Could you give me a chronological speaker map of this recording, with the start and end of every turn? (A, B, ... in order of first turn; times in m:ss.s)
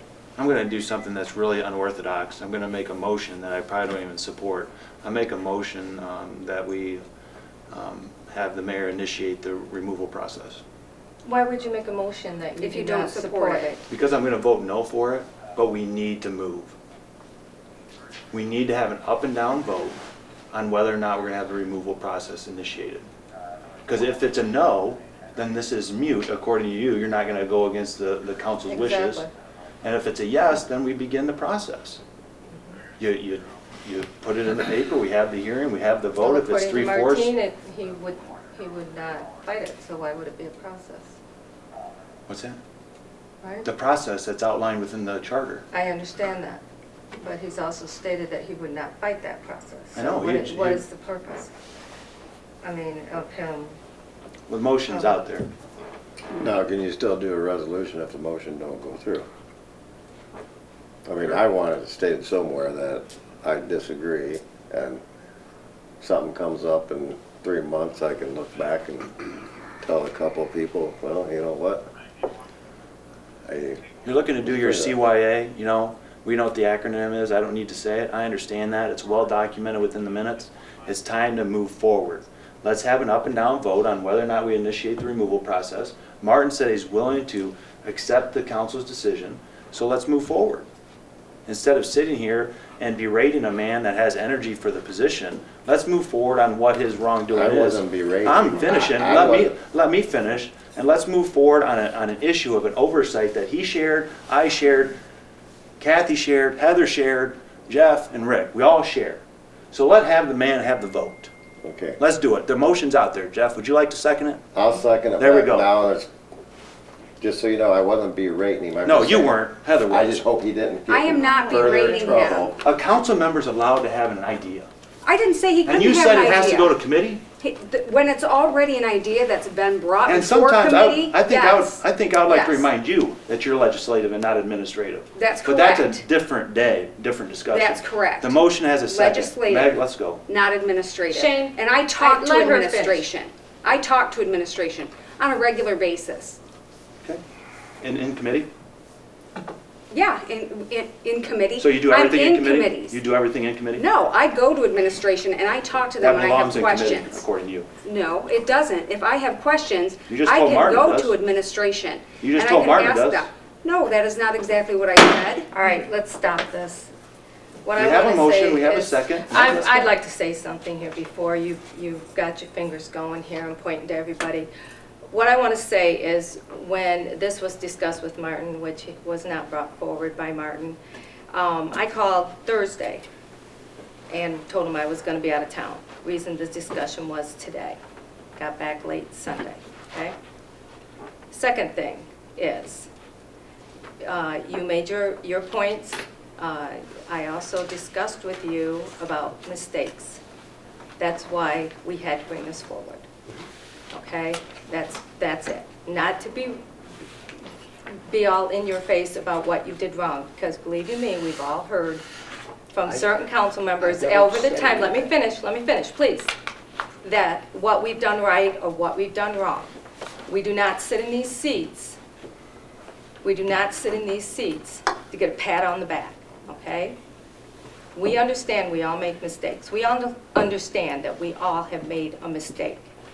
0:00.4-0:07.0 A
0:07.7-0:10.6 A
0:11.2-0:13.8 B
0:12.6-0:13.7 C
0:13.9-0:16.8 A
0:18.3-0:20.0 A
0:20.5-0:23.1 A
0:23.9-0:29.3 A
0:28.7-0:29.3 B
0:29.8-0:32.0 A
0:33.0-0:37.3 A
0:36.2-0:41.2 B
0:42.3-0:42.6 A
0:43.4-0:43.7 B
0:43.6-0:45.6 A
0:45.7-0:46.6 B
0:47.2-0:51.5 B
0:50.0-0:50.8 A
0:52.6-0:53.8 B
0:54.5-0:55.5 A
0:54.9-0:55.2 B
0:56.3-0:59.3 D
1:01.1-1:05.0 D
1:06.0-1:11.9 D
1:13.4-1:13.9 D
1:14.0-1:30.7 A
1:14.4-1:15.0 D
1:31.5-1:45.0 A
1:37.3-1:39.5 D
1:45.8-1:51.3 A
1:51.6-1:52.0 D
1:52.0-1:54.4 A
1:54.5-1:56.1 D
1:55.2-1:55.7 A
1:57.2-1:59.4 D
1:58.8-2:00.2 A
1:59.9-2:02.6 D
2:00.9-2:02.5 C
2:01.2-2:02.5 B
2:02.6-2:04.7 A
2:05.0-2:06.8 C
2:05.7-2:07.2 A
2:07.4-2:12.6 C
2:10.1-2:20.2 A
2:15.2-2:16.0 C
2:17.5-2:26.4 C
2:21.1-2:23.1 B
2:27.8-2:28.5 A
2:29.9-2:33.0 C
2:31.6-2:33.8 A
2:33.8-2:37.2 C
2:36.0-2:37.7 A
2:37.8-2:45.5 C
2:40.1-2:41.2 A
2:42.2-2:43.3 A
2:45.5-2:46.9 B
2:47.6-2:54.5 B
2:47.8-2:49.9 A
2:55.1-3:00.8 B
3:01.3-3:03.1 B
3:04.1-3:07.8 B
3:08.4-3:10.2 B
3:11.3-3:12.9 B
3:14.0-3:20.2 B
3:21.0-3:23.0 B
3:23.9-3:26.6 B
3:27.9-3:32.0 B
3:32.7-3:36.3 B
3:37.0-3:39.7 B
3:40.3-3:42.0 B
3:43.2-3:47.0 B
3:48.0-3:52.9 B